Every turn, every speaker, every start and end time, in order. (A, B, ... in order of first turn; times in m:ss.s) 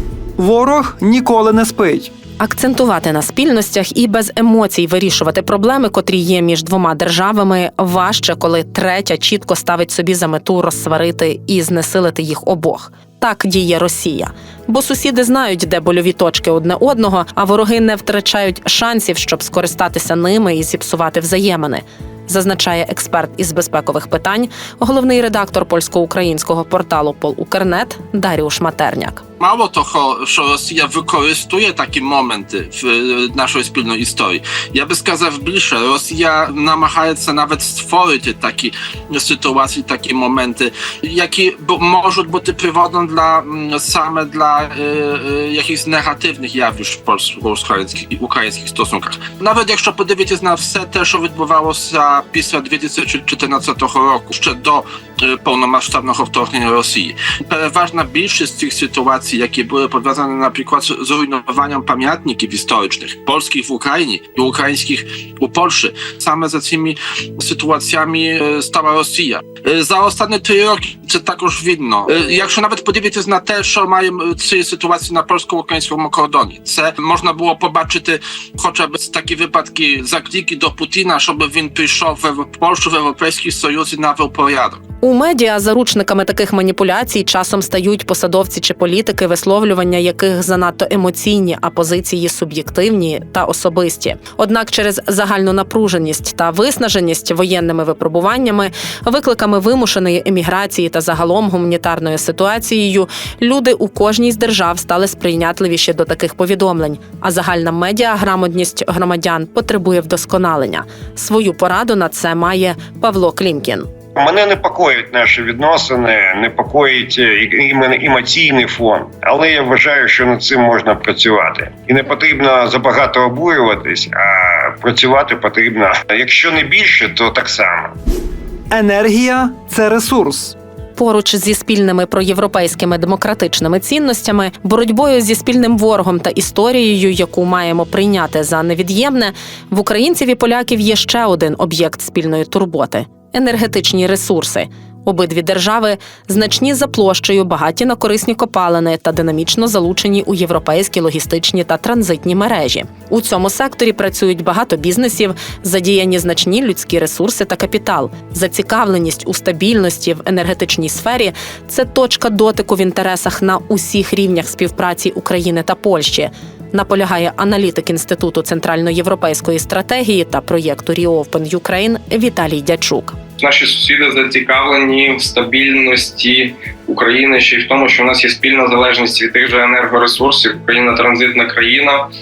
0:00.4-0:02.1 A
0:02.4-0:29.2 B
0:29.4-1:24.8 C
1:25.0-1:53.9 B
1:54.1-2:07.9 D
2:08.7-2:10.6 A
2:11.0-2:53.2 B
2:53.4-3:02.1 E